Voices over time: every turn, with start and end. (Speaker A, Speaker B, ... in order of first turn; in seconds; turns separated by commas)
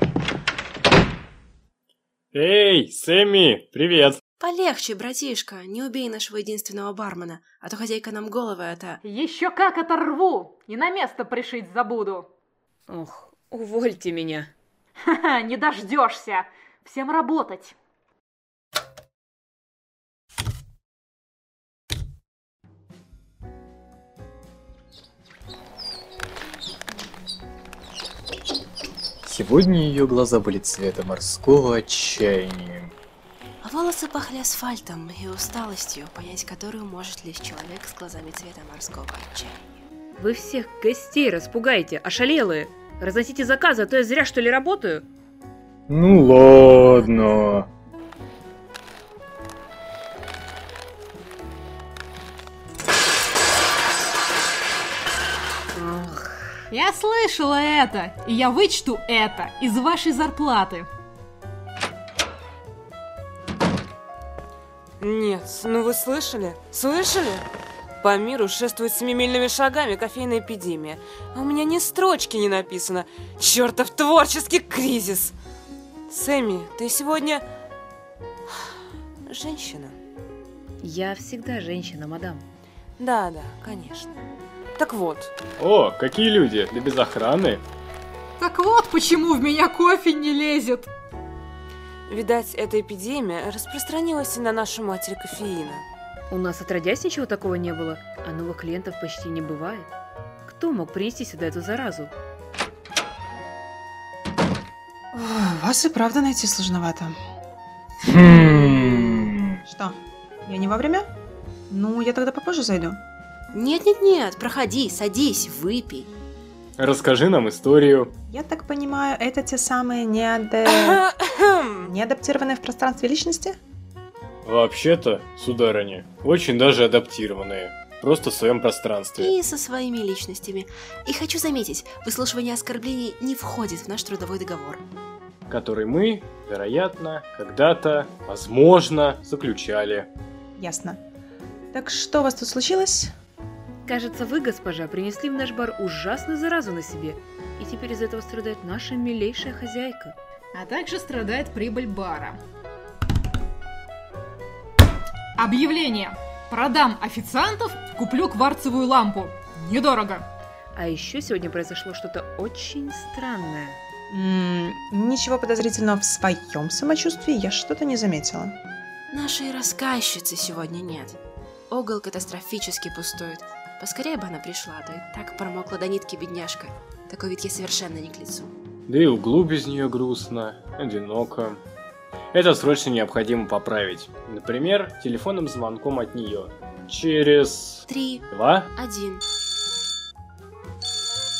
Speaker A: 2.3-4.2, Speaker B: 4.4-9.0, Speaker C: 9.1-12.3, Speaker D: 12.9-14.5, Speaker C: 15.1-17.8, Speaker E: 29.2-32.9, Speaker B: 33.6-39.8, Speaker D: 40.2-45.0, Speaker E: 45.9-47.7, Speaker D: 47.0-47.3, Speaker D: 55.7-56.3, Speaker C: 56.7-60.9, Speaker F: 65.0-67.5, Speaker F: 68.0-75.4, Speaker F: 76.1-77.5, Speaker F: 79.3-80.0, Speaker D: 80.8-82.4, Speaker F: 83.0-84.2, Speaker F: 84.8-85.3, Speaker A: 85.6-87.6, Speaker C: 88.4-90.9, Speaker F: 92.1-95.8, Speaker D: 96.3-99.9, Speaker D: 100.5-102.1, Speaker G: 105.1-107.2, Speaker E: 108.1-109.6, Speaker G: 109.7-111.1, Speaker G: 111.7-113.0, Speaker B: 113.5-116.1, Speaker A: 116.8-118.1, Speaker G: 118.3-121.0, Speaker F: 120.8-121.9, Speaker G: 121.8-123.6, Speaker A: 124.5-129.3, Speaker B: 129.2-134.8, Speaker A: 135.5-140.1, Speaker G: 140.6-141.0, Speaker G: 141.7-143.1, Speaker D: 143.9-150.2, Speaker C: 150.5-152.4, Speaker C: 155.4-160.3, Speaker D: 160.7-163.8, Speaker G: 164.1-168.6, Speaker B: 169.1-171.2, Speaker B: 171.7-178.6, Speaker A: 178.9-181.6, Speaker A: 182.3-188.7, Speaker B: 187.9-188.2, Speaker B: 188.8-189.2